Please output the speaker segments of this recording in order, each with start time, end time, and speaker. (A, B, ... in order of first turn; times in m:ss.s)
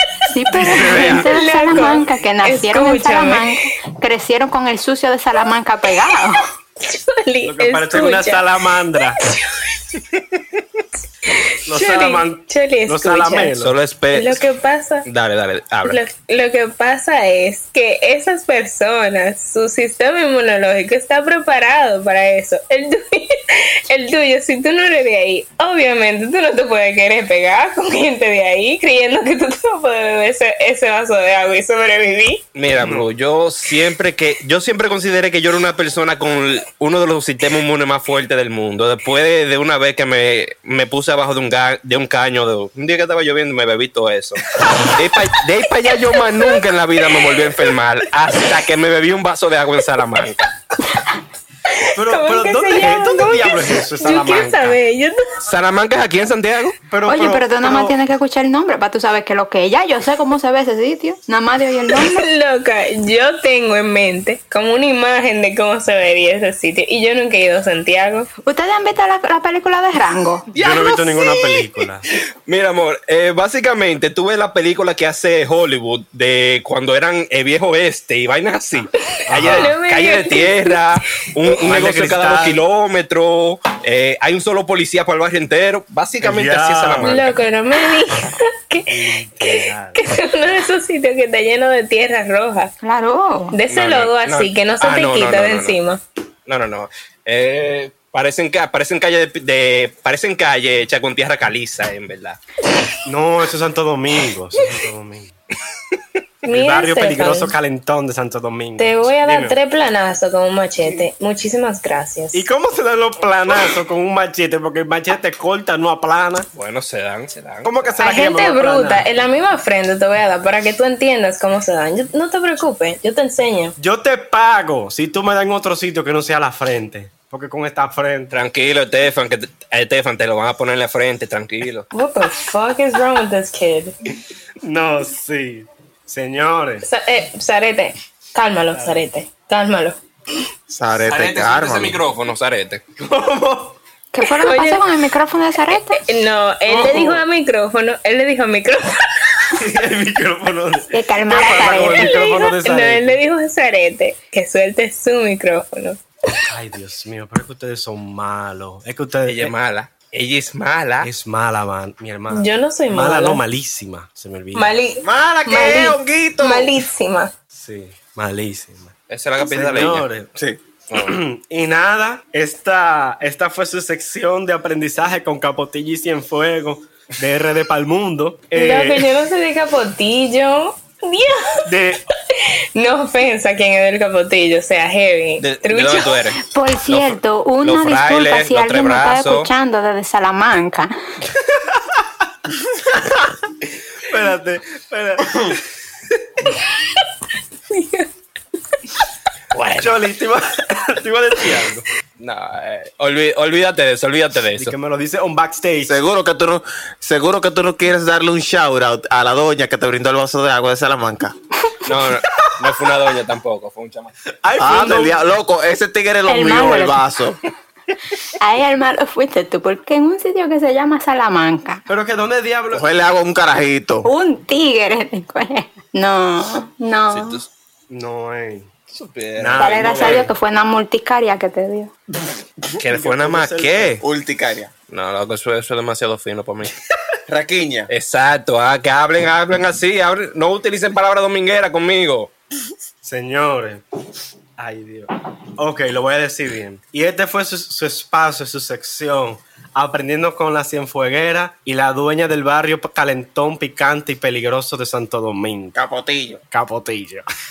0:00.3-0:06.4 A
0:00.6-0:03.6 B
0:00.7-0:01.2 C
0:06.8-0:08.6 B
0:07.4-0:09.2 D
0:09.2-0:09.9 B
0:11.2-0:13.5 B
0:11.7-0:13.8 D
0:13.6-0:14.4 C
0:14.1-0:15.0 B
0:15.0-0:16.0 C
0:15.9-0:32.4 B
0:32.5-0:50.4 C
0:32.8-0:33.1 D
0:44.6-0:44.9 D
0:51.7-0:55.3 B
0:51.9-0:54.8 D
0:55.4-0:56.8 C
0:56.9-0:58.0 D
0:57.0-1:02.3 A
1:01.9-1:08.3 B
1:08.4-1:10.5 A
1:10.5-1:12.0 D
1:10.5-1:11.4 C
1:12.4-1:27.4 C
1:19.3-1:19.7 D
1:19.4-1:20.8 B
1:21.6-1:22.6 D
1:26.2-1:27.2 D
1:27.0-1:32.7 B
1:28.9-1:30.0 D
1:32.8-1:33.6 A
1:33.5-1:36.0 B
1:33.7-1:35.8 C
1:36.5-1:42.4 C
1:43.0-1:45.3 D
1:46.4-1:47.5 B
1:46.5-1:49.6 D
1:48.8-1:52.4 B
1:52.3-1:56.5 D
1:56.5-1:58.0 C
1:57.6-1:59.1 D
1:58.0-2:03.8 B
2:03.8-2:08.3 D
2:08.3-2:11.8 C
2:11.9-2:14.0 B
2:14.6-2:16.8 D
2:16.8-2:20.0 B
2:20.7-2:22.0 E
2:21.0-2:22.8 C
2:23.0-2:23.8 D
2:24.1-2:26.0 A
2:24.3-2:24.9 B
2:25.7-2:29.5 B
2:26.7-2:27.2 D
2:29.6-2:33.2 D
2:30.9-2:32.3 A
2:31.8-2:36.4 B
2:36.4-2:39.5 D
2:39.2-2:41.1 C
2:41.0-2:44.7 D
2:42.3-2:43.4 B
2:44.5-2:47.3 B
2:45.0-2:46.7 E
2:47.5-2:50.3 D
2:49.1-2:50.1 C
2:50.9-2:51.1 C
2:50.9-2:59.0 D
2:58.5-3:01.7 B
3:01.6-3:02.0 D
3:02.3-3:06.2 B
3:05.4-3:09.5 C
3:06.4-3:10.9 A
3:11.4-3:12.0 D
3:14.0-3:15.6 D
3:15.2-3:15.5 E
3:16.6-3:17.0 B
3:17.7-3:18.1 B
3:19.5-3:20.0 C
3:19.8-3:21.9 D
3:22.2-3:24.7 C
3:24.6-3:26.0 D
3:25.8-3:31.3 E
3:31.8-3:34.1 C
3:34.4-3:35.2 D
3:34.6-3:37.4 E
3:36.3-3:37.0 A
3:38.4-3:41.8 A
3:41.9-3:42.8 D
3:42.7-3:44.1 E
3:44.0-3:47.4 A
3:47.1-3:47.5 C
3:47.9-3:48.7 D
3:48.9-3:50.3 C
3:49.4-3:50.3 D
3:49.6-3:51.9 A
3:52.7-3:54.0 D
3:52.8-3:54.0 C
3:54.0-3:54.7 E
3:54.9-3:56.7 C
3:57.3-3:57.9 E
3:57.9-4:02.3 C
4:03.0-4:03.8 D
4:04.6-4:15.8 D
4:15.7-4:16.4 E
4:16.5-4:17.2 D